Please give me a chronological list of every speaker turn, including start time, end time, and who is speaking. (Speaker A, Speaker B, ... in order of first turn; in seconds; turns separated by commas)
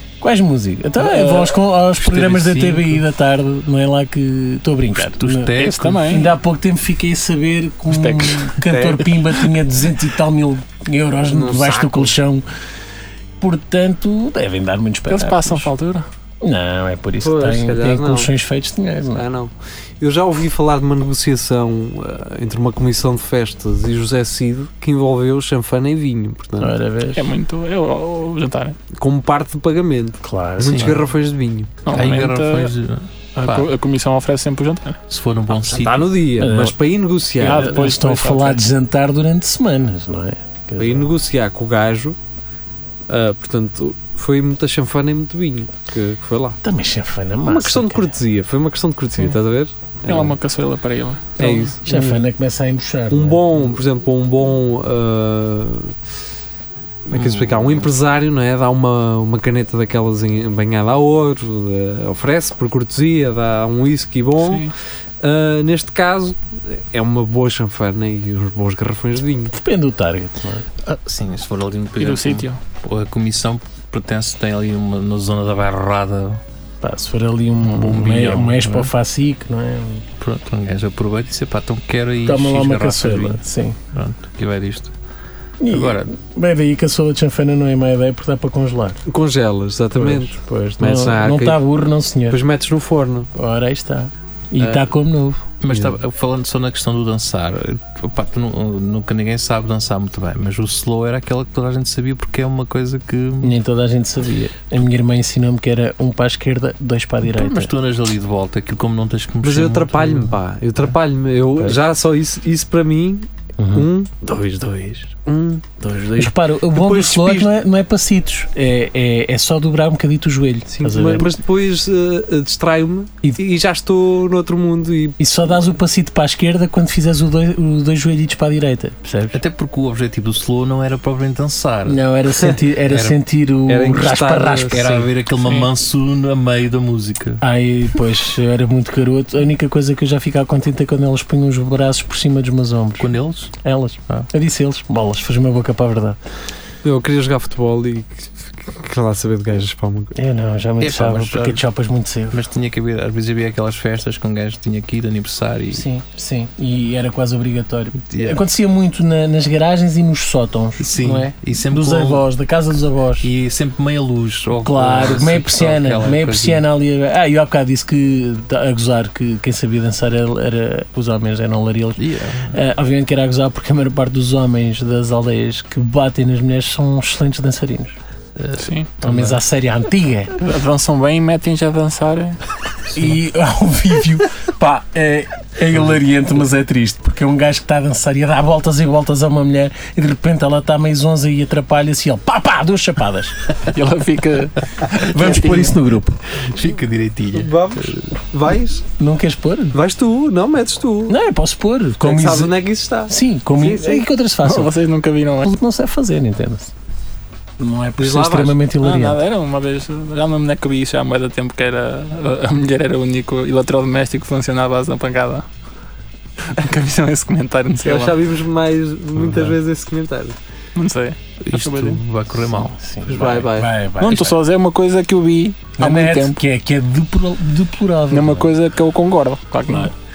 Speaker A: 0.2-5.5, Speaker B: 1.0-1.5, Speaker C: 2.0-3.0, Speaker C: 4.9-6.0, Speaker B: 5.6-6.3, Speaker A: 6.1-12.5, Speaker B: 7.9-8.5, Speaker D: 8.7-9.1, Speaker D: 11.3-12.1, Speaker A: 13.4-15.7, Speaker B: 15.1-16.1, Speaker A: 16.4-19.2, Speaker D: 17.2-18.3, Speaker D: 19.1-26.7, Speaker A: 26.6-27.2, Speaker B: 27.1-28.8, Speaker D: 28.9-31.8, Speaker A: 30.2-31.0, Speaker B: 31.9-32.7, Speaker C: 31.9-33.7, Speaker B: 33.4-35.0, Speaker C: 35.1-36.2, Speaker D: 35.5-37.8, Speaker A: 36.4-36.8, Speaker B: 37.4-38.6, Speaker A: 37.4-41.1, Speaker D: 40.8-42.2, Speaker D: 43.1-46.6, Speaker A: 46.6-48.1, Speaker D: 47.5-50.4, Speaker B: 50.1-51.7, Speaker D: 51.4-52.1, Speaker A: 51.9-53.4, Speaker D: 53.1-56.0, Speaker D: 57.0-69.6, Speaker C: 57.1-57.9, Speaker B: 64.4-64.7, Speaker A: 69.6-70.7, Speaker C: 70.8-76.4, Speaker B: 72.0-72.6, Speaker A: 76.8-80.1, Speaker C: 77.6-78.9, Speaker C: 80.2-84.9, Speaker A: 82.3-83.8, Speaker A: 85.6-89.0, Speaker C: 85.7-86.1, Speaker D: 89.1-91.6, Speaker A: 90.0-92.4, Speaker D: 92.3-93.3, Speaker A: 93.3-95.4, Speaker D: 94.6-94.9, Speaker C: 95.6-103.6, Speaker A: 103.4-107.7, Speaker C: 107.2-110.4, Speaker D: 109.4-117.5, Speaker A: 113.6-113.9, Speaker A: 116.2-121.3, Speaker D: 120.7-125.2, Speaker A: 125.2-129.4, Speaker C: 129.3-132.0, Speaker A: 131.9-135.1, Speaker C: 132.9-133.2, Speaker D: 133.7-134.9, Speaker C: 134.7-137.4, Speaker A: 137.4-146.2, Speaker C: 143.0-143.5, Speaker D: 146.8-150.1, Speaker A: 150.2-152.4, Speaker C: 150.8-151.6, Speaker C: 152.3-155.9, Speaker A: 155.7-163.3, Speaker C: 158.1-158.4, Speaker C: 160.8-162.2, Speaker C: 163.2-166.7, Speaker A: 164.6-178.0, Speaker C: 172.0-172.6, Speaker C: 178.4-179.4, Speaker B: 178.6-178.9, Speaker A: 179.0-180.3, Speaker B: 180.4-182.4, Speaker A: 182.9-193.4, Speaker B: 193.7-195.8, Speaker A: 195.0-196.2, Speaker C: 196.3-198.0, Speaker D: 197.3-198.9, Speaker A: 199.0-199.8, Speaker D: 199.7-201.2, Speaker A: 201.1-202.5, Speaker D: 202.0-204.1, Speaker A: 203.1-204.7, Speaker B: 204.4-205.4, Speaker A: 205.4-206.7, Speaker A: 207.6-209.2, Speaker D: 208.0-208.6, Speaker B: 208.8-215.5, Speaker B: 216.5-218.2, Speaker D: 217.8-220.4, Speaker C: 219.2-219.6, Speaker B: 220.8-222.0, Speaker C: 221.4-222.8, Speaker A: 222.4-224.4, Speaker D: 223.1-223.7, Speaker B: 224.0-226.4, Speaker A: 225.8-228.5, Speaker B: 228.1-229.9